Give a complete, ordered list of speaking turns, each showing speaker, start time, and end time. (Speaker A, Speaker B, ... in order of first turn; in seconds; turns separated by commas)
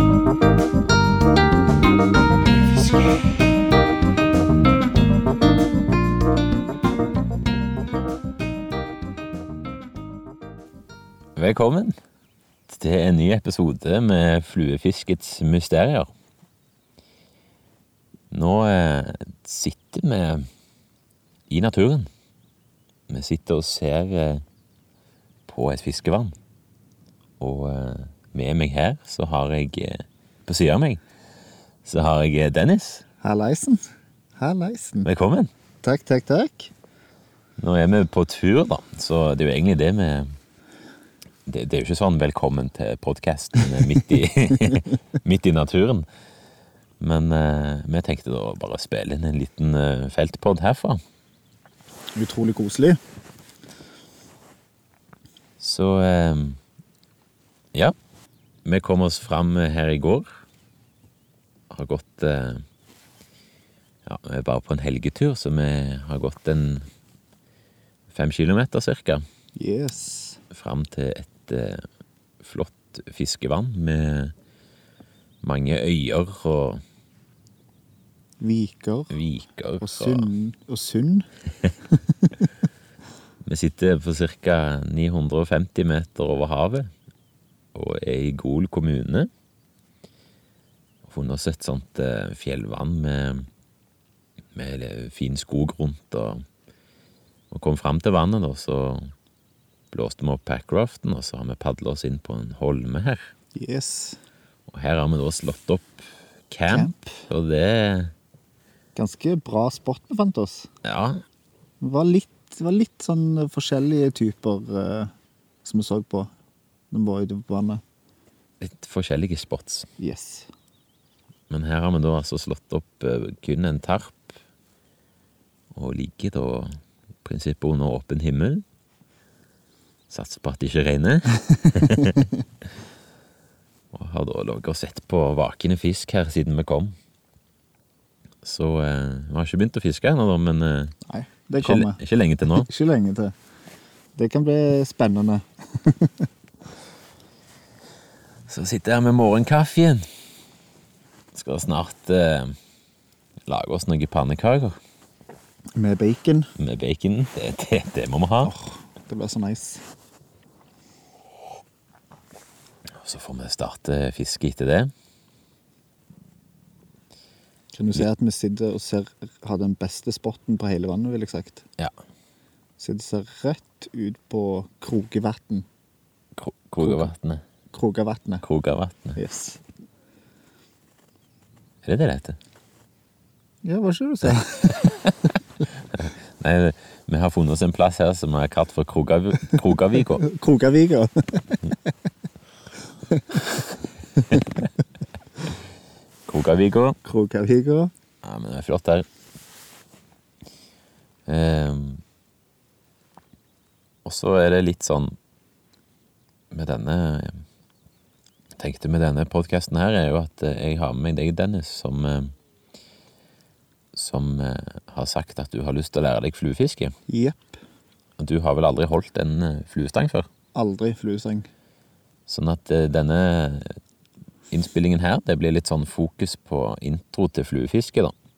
Speaker A: 11.3-11.9, Speaker A: 12.7-16.1, Speaker A: 18.3-20.5, Speaker A: 21.5-22.1, Speaker A: 23.1-24.4, Speaker A: 25.5-26.3, Speaker A: 27.4-31.0, Speaker A: 31.8-33.0, Speaker B: 33.2-33.9, Speaker B: 34.4-35.1, Speaker A: 35.0-35.5, Speaker B: 35.8-36.7, Speaker A: 37.6-40.3, Speaker A: 41.5-46.0, Speaker A: 47.0-51.0, Speaker B: 52.1-53.0, Speaker A: 55.6-56.6, Speaker A: 58.6-60.4, Speaker A: 61.7-62.6, Speaker A: 64.0-66.9, Speaker A: 68.1-69.2, Speaker B: 69.5-70.4, Speaker A: 70.5-71.8, Speaker A: 72.4-74.3, Speaker A: 75.4-76.8, Speaker B: 78.4-79.2, Speaker A: 79.1-80.3, Speaker B: 79.8-81.3, Speaker A: 83.4-86.9, Speaker A: 87.7-89.3, Speaker A: 91.0-93.5, Speaker A: 94.5-96.4, Speaker A: 97.5-99.1, Speaker A: 99.9-103.3, Speaker B: 103.5-104.2, Speaker A: 104.7-106.0, Speaker A: 106.5-108.1, Speaker B: 106.7-107.2, Speaker B: 108.9-110.7, Speaker A: 110.8-111.2, Speaker B: 111.8-115.1, Speaker B: 115.6-116.3, Speaker B: 116.9-117.8, Speaker A: 118.6-119.9, Speaker B: 120.0-120.5, Speaker A: 121.5-124.3, Speaker A: 125.7-128.6, Speaker A: 130.1-132.3, Speaker A: 133.9-136.9, Speaker A: 138.4-140.9, Speaker B: 141.1-143.3, Speaker A: 141.6-142.7, Speaker B: 144.2-146.3, Speaker A: 148.5-150.1, Speaker A: 151.3-152.5, Speaker A: 153.5-154.8, Speaker B: 155.7-156.5, Speaker A: 156.6-158.5, Speaker B: 158.4-159.8, Speaker A: 162.9-164.9, Speaker B: 167.7-171.6, Speaker B: 172.8-175.7, Speaker A: 176.3-177.4, Speaker B: 176.8-177.1, Speaker B: 177.7-178.4, Speaker A: 178.4-179.2, Speaker B: 179.2-179.6, Speaker A: 181.8-182.4, Speaker B: 183.6-185.3, Speaker A: 185.9-190.2, Speaker B: 190.1-191.6, Speaker B: 193.2-193.4, Speaker A: 196.3-197.0, Speaker B: 197.0-197.9, Speaker A: 198.2-199.1, Speaker A: 201.3-202.0, Speaker A: 204.0-205.2, Speaker A: 206.5-207.4, Speaker A: 208.6-212.3, Speaker A: 213.9-216.9, Speaker B: 217.1-217.6, Speaker A: 218.2-220.3, Speaker B: 220.5-221.5, Speaker A: 222.3-223.8, Speaker A: 224.5-228.1